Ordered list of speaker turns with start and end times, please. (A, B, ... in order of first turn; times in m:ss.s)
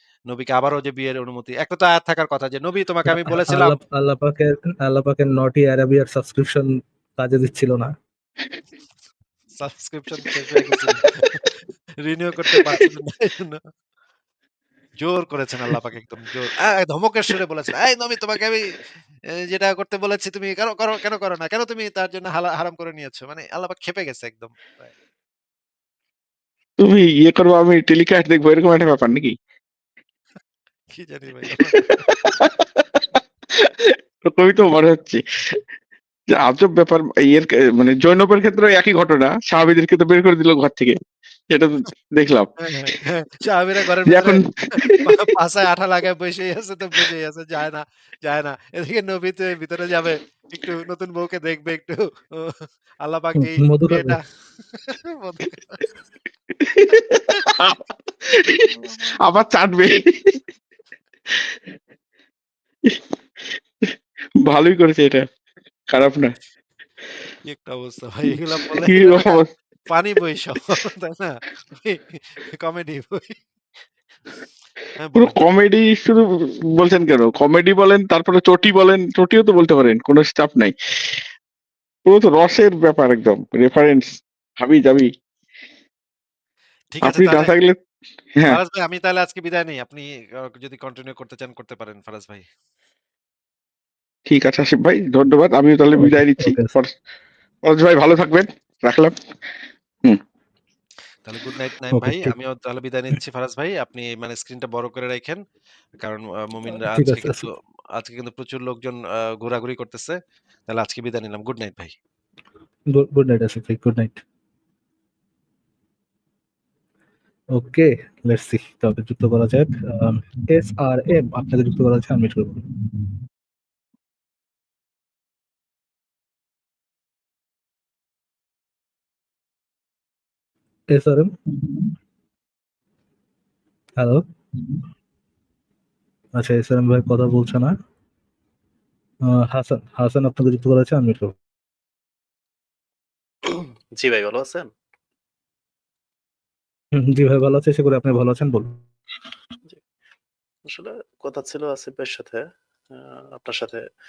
0:00.3-0:03.8 A
0:03.0-0:07.9 B
0:09.6-0:11.5 A
0:12.0-0:13.6 A
0:12.4-0:12.8 C
0:15.0-0:18.8 A
0:19.5-0:24.9 A
0:26.8-0:29.3 C
0:30.9-0:31.8 A
0:31.8-0:35.6 C
0:36.3-0:41.0 C
0:41.5-0:42.5 C
0:42.6-0:54.2 A
0:44.1-0:45.0 C
0:53.4-0:54.2 B
0:54.7-0:55.8 A
0:56.6-1:00.4 C
1:01.3-1:01.6 C
1:04.4-1:05.2 C
1:05.9-1:06.3 C
1:07.4-1:13.4 A
1:08.8-1:09.5 C
1:15.0-1:15.4 A
1:15.2-1:21.2 C
1:22.1-1:25.1 C
1:26.9-1:27.5 A
1:27.0-1:27.8 C
1:28.4-1:32.4 A
1:34.3-1:36.9 C
1:35.9-1:36.7 B
1:37.6-1:39.1 C
1:41.2-1:45.4 A
1:42.0-1:42.3 B
1:46.0-1:51.9 A
1:46.9-1:47.4 B
1:52.9-1:54.2 B
1:57.5-2:02.6 B
2:10.9-2:11.8 B
2:16.4-2:17.7 B
2:19.3-2:21.3 B
2:23.4-2:24.7 D
2:27.0-2:28.8 B
2:30.6-2:33.8 D